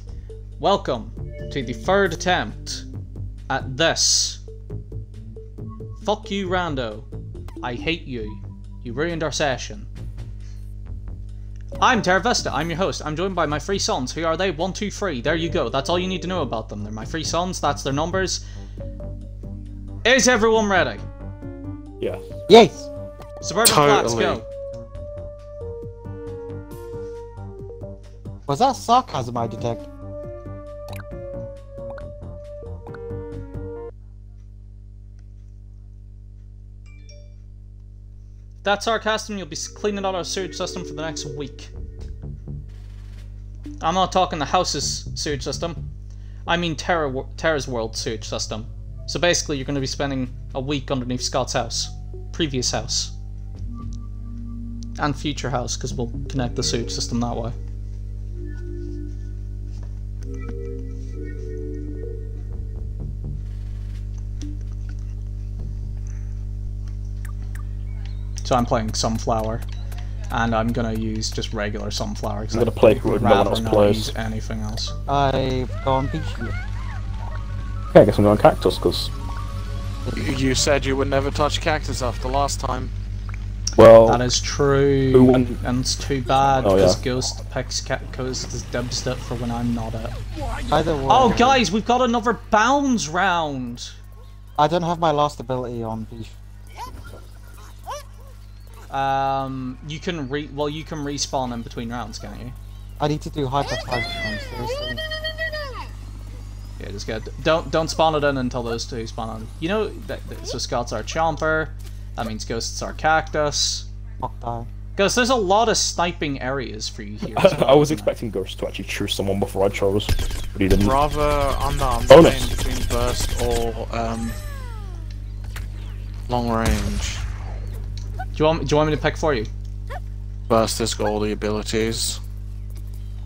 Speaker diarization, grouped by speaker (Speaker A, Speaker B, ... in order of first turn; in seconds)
Speaker A: 0.6-2.9, 3.5-4.4, 6.0-7.1, 7.6-9.9, 11.8-18.4, 20.0-21.0, 23.4-24.5, 38.6-41.7, 43.8-45.9, 46.5-53.1, 55.0-57.6, 68.4-69.7, 70.3-75.0, 84.0-90.2, 91.1-94.0, 98.9-102.5, 106.8-113.9, 115.0-118.1, 128.3-129.5
Speaker B: 22.5-22.9, 28.5-29.9, 75.1-76.5, 90.7-91.6, 94.6-96.3, 103.0-105.0, 114.2-114.7
Speaker C: 23.6-24.4, 80.1-82.9, 120.8-124.4, 126.3-127.2, 130.5-132.2
Speaker D: 72.5-74.1, 77.9-79.1, 83.8-84.2, 85.1-85.6, 86.6-87.0, 117.2-121.0, 122.1-122.5